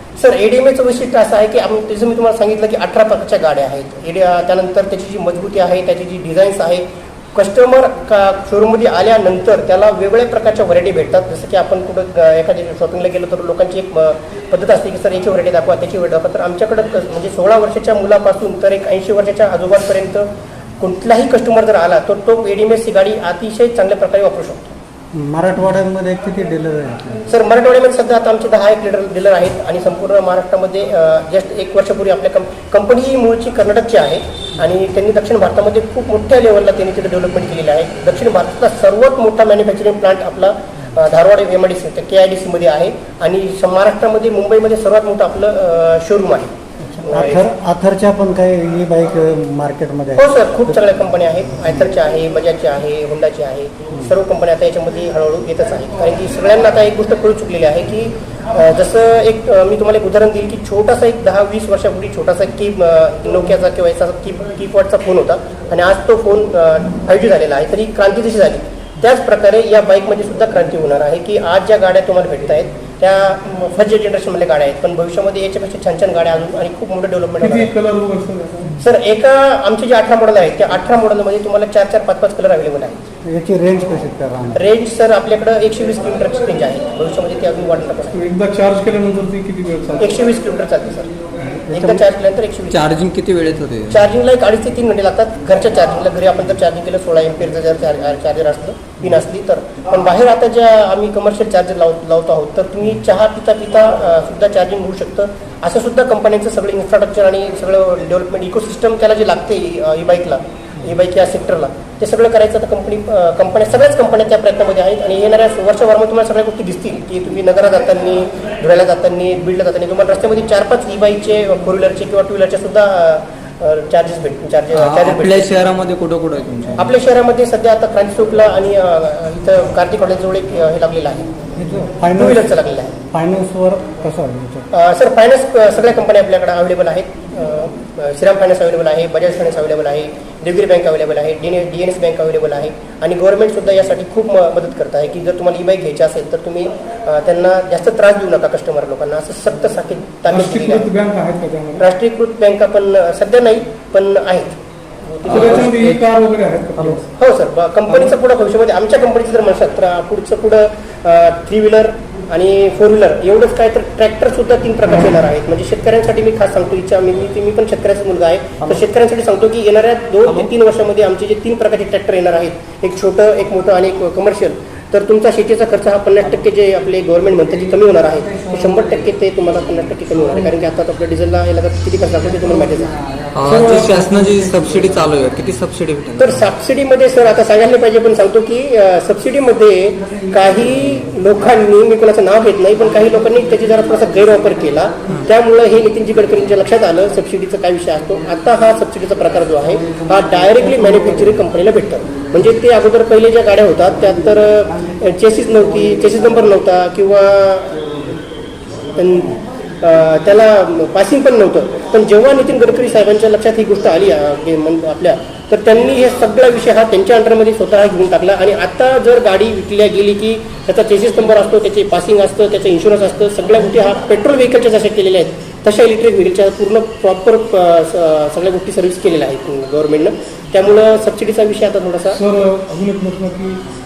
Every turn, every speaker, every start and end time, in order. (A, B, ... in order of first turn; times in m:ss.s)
0:00.2-0:20.3 A
0:20.8-0:24.8 A
0:25.1-0:27.3 B
0:27.3-0:46.5 A
0:46.8-0:50.7 B
0:47.0-0:47.4 A
0:50.2-1:17.7 A
1:17.4-1:18.8 C
1:18.8-1:23.0 A
1:23.2-1:24.6 B
1:24.5-1:28.2 A
1:28.1-1:30.2 C
1:30.0-1:31.1 A
1:31.7-1:32.8 A
1:31.7-1:32.0 B
1:32.7-1:34.0 D
1:33.9-2:05.5 A
2:04.7-2:06.9 D
2:06.8-2:11.3 A
2:11.6-2:12.5 B
2:12.1-2:13.0 A
2:13.0-2:14.7 B
2:14.7-2:30.9 A
2:30.3-2:31.9 C
2:31.8-2:34.6 A
2:35.2-2:36.0 D
2:35.2-2:37.0 C
2:35.3-2:35.6 A
2:37.1-3:02.9 A
3:03.3-3:06.4 D
3:03.5-3:04.0 C
3:03.5-3:04.5 B
3:06.2-3:27.9 A
3:28.9-3:52.2 A
3:52.1-3:53.6 C